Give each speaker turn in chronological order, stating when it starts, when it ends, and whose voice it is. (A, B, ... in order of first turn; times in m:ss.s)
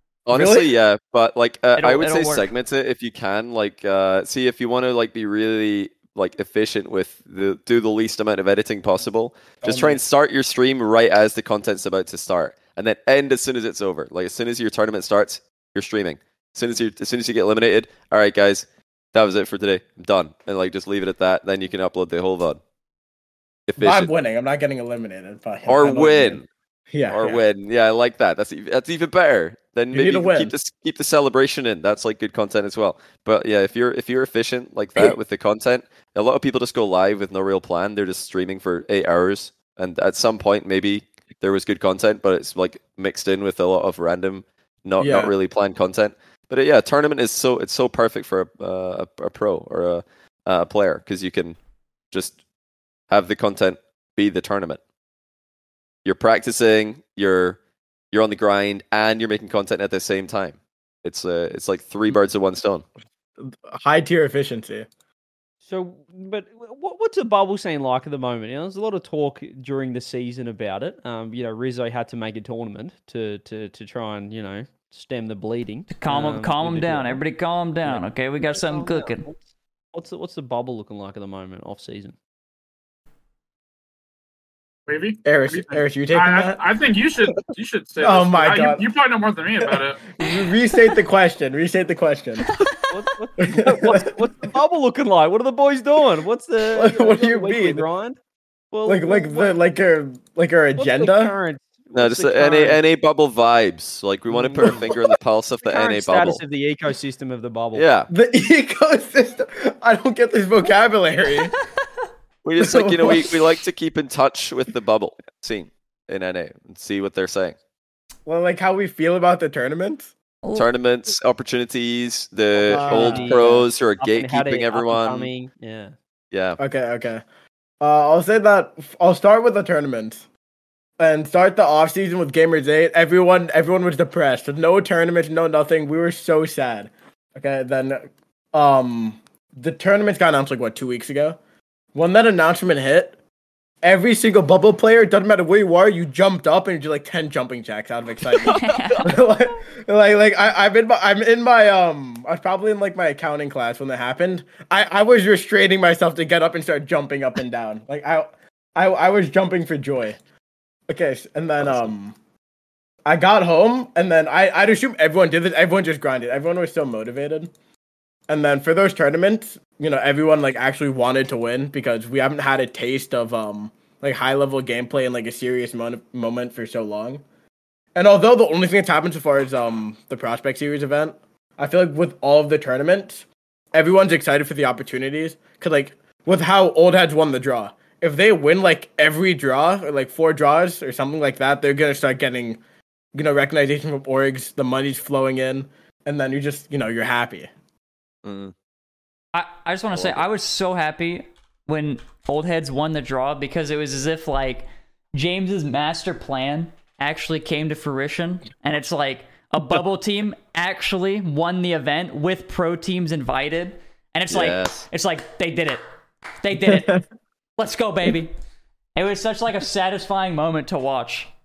0:00.2-0:22.6 A
0:00.3-0:00.7 B
0:01.8-0:02.5 C
0:09.6-0:10.0 B
0:23.7-0:24.1 A
0:23.8-0:26.4 B
0:25.7-0:26.5 A
0:26.9-0:27.4 B
0:27.1-0:51.6 A
0:29.9-0:30.5 B
0:45.0-0:45.3 B
0:52.1-0:52.4 A
0:53.1-0:54.8 A
0:56.0-0:57.6 A
0:58.1-1:02.8 A
1:03.4-1:04.9 B
1:05.6-1:17.2 D
1:15.9-1:19.2 C
1:17.8-1:19.4 D
1:19.9-1:22.1 D
1:24.9-1:30.0 E
1:25.2-1:26.6 B
1:28.0-1:28.8 B
1:29.6-1:32.4 B
1:32.4-1:32.9 C
1:32.9-1:38.2 D
1:33.4-1:34.2 B
1:36.7-1:37.9 B
1:38.7-1:39.6 D
1:38.8-1:41.3 B
1:40.8-1:42.8 D
1:41.9-1:46.4 A
1:44.3-1:45.0 D
1:45.6-1:47.9 D
1:47.7-1:48.1 A
1:48.1-1:51.5 B
1:52.4-1:57.6 A
1:52.6-1:53.5 B
1:58.2-2:00.1 B
2:00.4-2:00.7 C
2:00.5-2:05.3 A
2:02.7-2:05.9 D
2:02.7-2:03.6 B
2:06.3-2:06.6 A
2:06.6-2:07.2 B
2:07.8-2:10.2 B
2:11.0-2:21.4 B
2:21.9-2:23.1 B
2:23.8-2:40.2 B
2:28.4-2:29.2 C
2:40.9-2:42.1 B
2:41.6-2:41.9 A
2:43.0-2:47.5 B
2:48.3-2:57.2 B
2:57.9-3:12.6 B
3:13.1-3:17.5 B
3:18.2-3:18.5 A
3:19.3-3:35.8 C
3:19.9-3:20.2 A
3:34.3-3:34.8 A
3:36.4-3:37.0 C
3:36.6-3:37.0 B
3:37.6-3:38.3 C
3:39.0-3:41.3 C